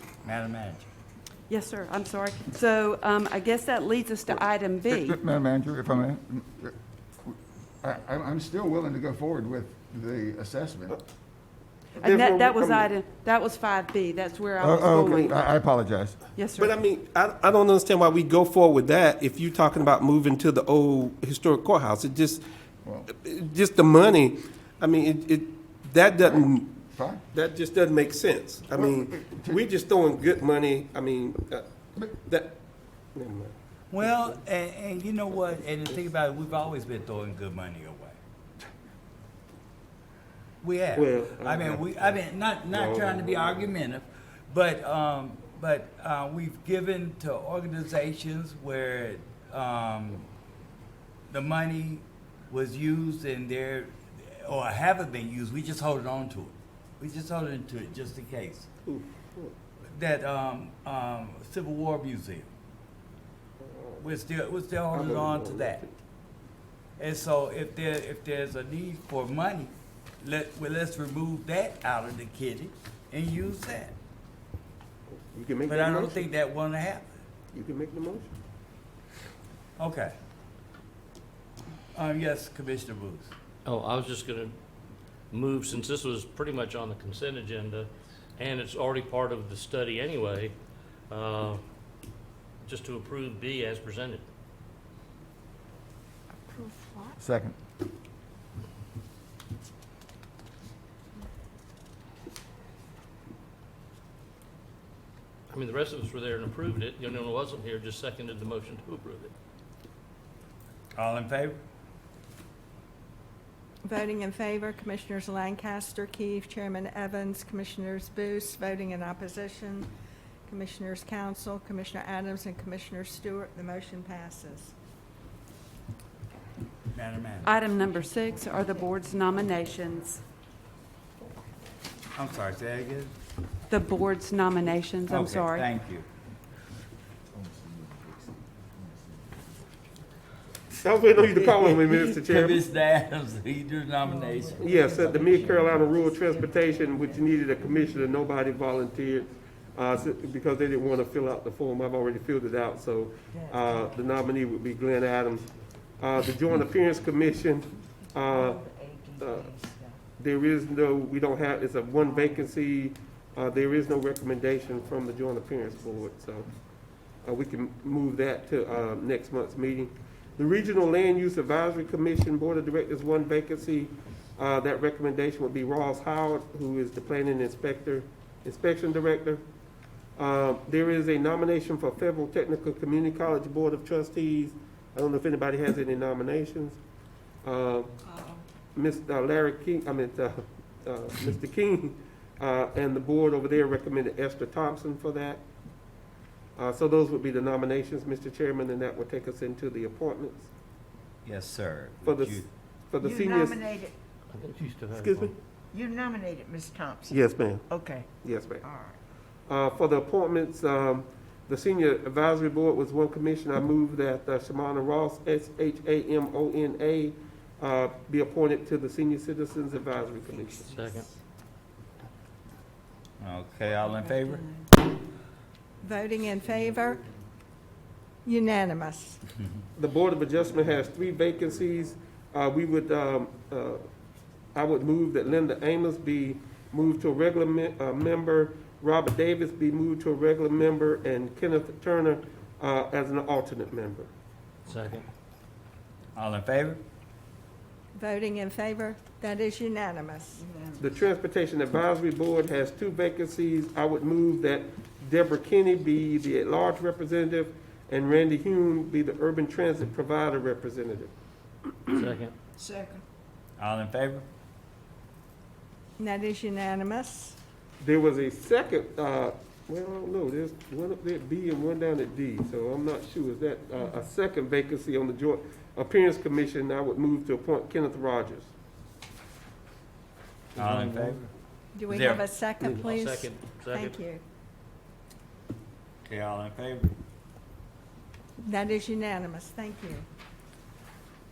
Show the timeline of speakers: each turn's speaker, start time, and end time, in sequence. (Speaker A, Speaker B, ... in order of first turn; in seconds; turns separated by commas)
Speaker A: 0.2-0.9, Speaker B: 1.5-5.2, Speaker C: 4.9-11.0, Speaker B: 12.0-15.4, Speaker D: 12.0-12.9, Speaker C: 14.6-16.2, Speaker B: 16.4-16.8, Speaker D: 16.6-22.4, Speaker C: 22.8-23.1, Speaker D: 23.1-26.7, Speaker C: 26.9-27.2, Speaker D: 27.3-31.7, Speaker C: 28.7-29.6, Speaker D: 32.2-32.6, Speaker D: 33.1-34.2, Speaker A: 33.9-38.2, Speaker A: 40.6-50.3, Speaker D: 41.0-43.7, Speaker A: 51.3-58.7, Speaker D: 58.8-59.6, Speaker A: 59.9-62.5, Speaker D: 63.6-64.1, Speaker A: 64.0-65.8, Speaker D: 64.9-66.0, Speaker A: 67.0-74.0, Speaker D: 75.1-76.3, Speaker A: 75.7-77.1, Speaker D: 77.5-78.4, Speaker A: 79.8-80.1, Speaker A: 81.9-83.3, Speaker E: 83.7-84.6, Speaker E: 85.3-90.5, Speaker E: 91.1-91.6, Speaker E: 92.6-94.2, Speaker F: 96.7-97.1, Speaker C: 97.2-97.6, Speaker E: 105.5-109.3, Speaker A: 111.0-111.6, Speaker G: 113.8-119.9, Speaker G: 120.5-124.7, Speaker A: 126.9-127.5, Speaker B: 127.4-130.2, Speaker A: 132.2-133.1, Speaker B: 133.7-135.7, Speaker A: 135.1-136.1, Speaker C: 137.4-138.0, Speaker D: 140.8-142.6, Speaker A: 141.2-145.6, Speaker F: 144.0-148.2, Speaker D: 144.6-158.6, Speaker F: 153.3-154.2, Speaker F: 158.2-160.0, Speaker D: 159.2-159.5, Speaker D: 160.2-166.5, Speaker F: 162.0-162.5, Speaker D: 167.2-179.4, Speaker D: 180.2-186.8, Speaker D: 187.4-187.9, Speaker D: 188.7-195.4, Speaker D: 196.6-200.5, Speaker A: 201.2-202.5, Speaker D: 202.0-203.6, Speaker F: 203.0-203.9, Speaker E: 204.3-205.3, Speaker D: 205.0-205.3, Speaker F: 205.7-209.0, Speaker D: 207.1-207.7, Speaker D: 208.2-208.6, Speaker D: 209.5-220.7, Speaker F: 220.3-221.1, Speaker E: 220.7-221.1, Speaker A: 223.2-224.5, Speaker G: 225.8-227.0, Speaker G: 228.2-229.2, Speaker D: 229.8-233.9, Speaker D: 234.5-244.1, Speaker E: 244.7-245.1, Speaker A: 246.2-246.8, Speaker G: 247.9-250.4, Speaker F: 250.4-250.9, Speaker D: 250.8-261.1, Speaker E: 261.9-262.4, Speaker F: 262.6-263.0, Speaker A: 263.6-264.2, Speaker G: 266.0-267.4, Speaker D: 267.8-278.5, Speaker A: 280.6-281.2, Speaker G: 281.7-284.2, Speaker A: 281.8-282.2, Speaker E: 282.6-283.9, Speaker A: 286.1-286.9, Speaker G: 288.4-290.1